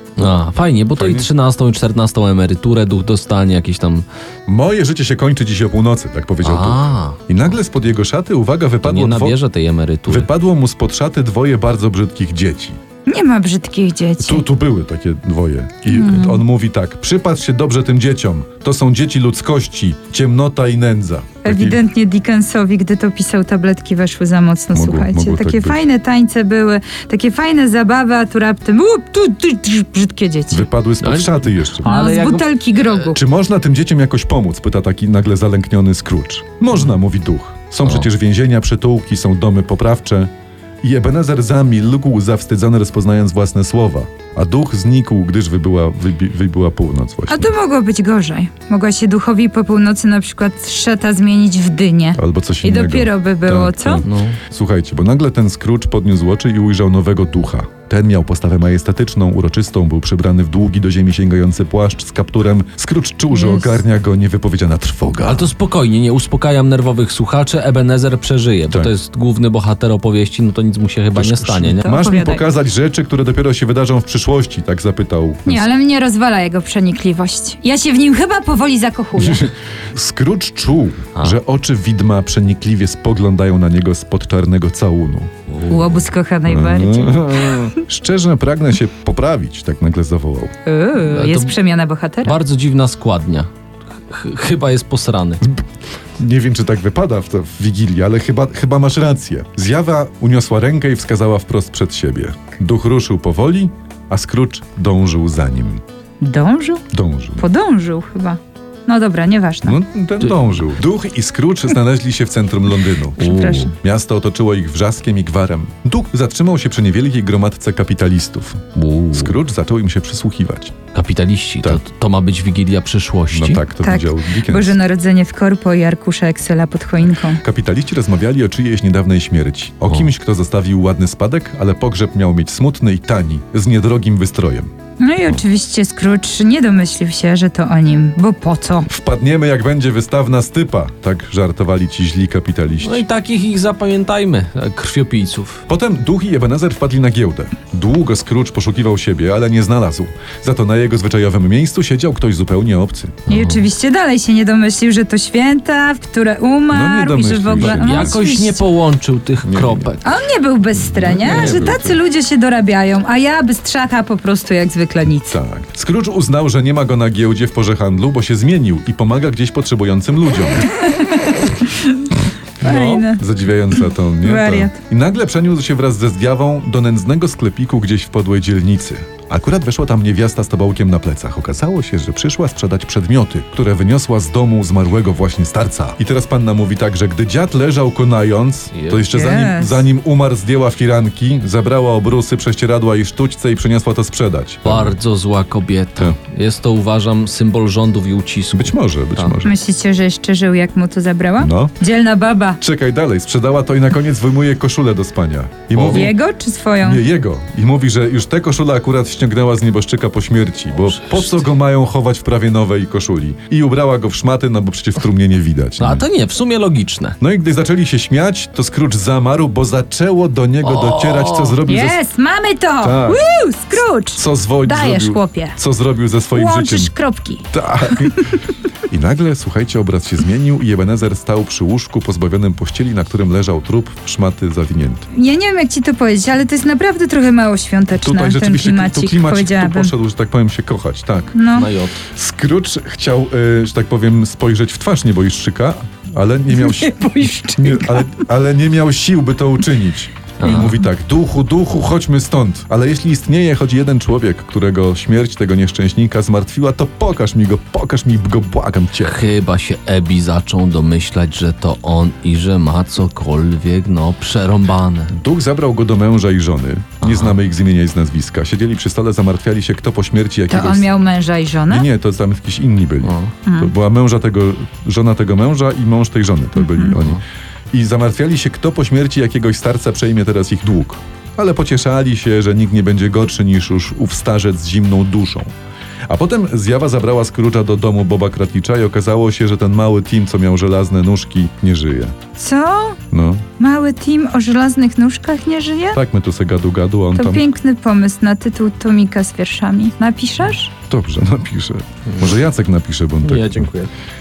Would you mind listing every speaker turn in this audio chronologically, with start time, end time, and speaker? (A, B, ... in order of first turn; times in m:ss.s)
0:00.2-0:04.0 A
0:00.9-0:01.3 B
0:04.5-0:09.4 B
0:06.4-0:07.2 A
0:08.8-0:10.3 A
0:10.1-0:12.8 B
0:13.0-0:14.4 C
0:14.2-0:21.8 B
0:15.9-0:16.4 C
0:21.4-0:30.7 C
0:24.7-0:25.8 B
0:30.5-0:31.9 B
0:31.0-0:32.5 A
0:31.8-0:33.2 C
0:33.1-0:40.3 B
0:40.8-0:47.5 B
0:47.3-0:54.0 C
0:52.1-1:05.5 B
0:54.0-0:54.4 A
1:03.3-1:03.8 C
1:05.2-1:11.9 A
1:11.1-1:15.7 B
1:11.8-1:12.5 C
1:15.4-1:19.5 C
1:19.2-1:25.3 B
1:25.5-1:26.0 A
1:25.7-1:27.8 C
1:26.5-1:30.5 B
1:30.6-1:32.4 C
1:31.0-1:31.5 A
1:32.2-1:33.5 A
1:34.0-1:35.4 A
1:36.2-1:45.8 B
1:46.2-1:46.8 C
1:46.9-1:47.4 B
1:47.4-1:49.8 C
1:49.6-2:00.8 B
1:50.2-1:50.7 A
1:53.2-1:53.7 A
1:53.2-1:53.7 C
1:58.7-1:59.4 A
2:00.9-2:03.6 A
2:03.3-2:04.8 B
2:03.8-2:07.4 C
2:07.3-2:14.7 B
2:15.0-2:18.9 C
2:18.9-2:23.0 B
2:22.8-2:25.6 A
2:25.7-2:33.2 B
2:33.3-2:33.6 A
2:33.3-2:38.6 C
2:36.7-2:38.2 B
2:37.6-2:40.0 A
2:39.4-2:39.9 B
2:40.0-2:45.4 C
2:41.0-2:42.0 B
2:41.0-2:41.8 A
2:45.3-2:50.7 B
2:50.7-2:52.0 C
2:52.6-3:14.9 B
2:52.6-2:53.2 C
2:54.2-2:54.8 C
3:08.7-3:09.1 A
3:09.1-3:09.8 C
3:14.6-3:19.3 A
3:18.5-3:19.6 B
3:19.4-3:22.6 C
3:21.4-3:21.7 B
3:22.6-3:26.2 B
3:25.7-3:26.1 A
3:25.8-3:27.0 C
3:26.8-3:36.0 B
3:30.8-3:31.4 A
3:35.8-3:37.2 A
3:37.2-3:42.0 B
3:40.6-3:41.6 A
3:41.6-3:45.6 C
3:42.8-3:43.2 B
3:44.1-3:46.9 B
3:46.3-3:47.5 C
3:47.5-3:55.0 B
3:55.1-3:59.9 C
3:58.0-4:01.4 B
4:01.3-4:01.7 C
4:01.5-4:02.0 A
4:02.1-4:07.0 B
4:06.5-4:08.2 C
4:07.6-4:19.2 B
4:10.4-4:10.8 A
4:19.0-4:25.1 A
4:25.1-4:30.9 B
4:27.0-4:27.4 A
4:30.5-4:31.9 C
4:31.7-4:37.2 B
4:33.0-4:33.3 A
4:33.4-4:33.7 C
4:36.6-4:36.9 C
4:37.7-4:45.5 B
4:46.1-4:52.2 B
4:52.4-4:53.0 C
4:53.1-4:53.4 B
4:53.6-4:56.0 C
4:55.9-4:57.5 B
4:57.1-5:00.7 C
5:00.9-5:03.7 B
5:03.2-5:03.9 A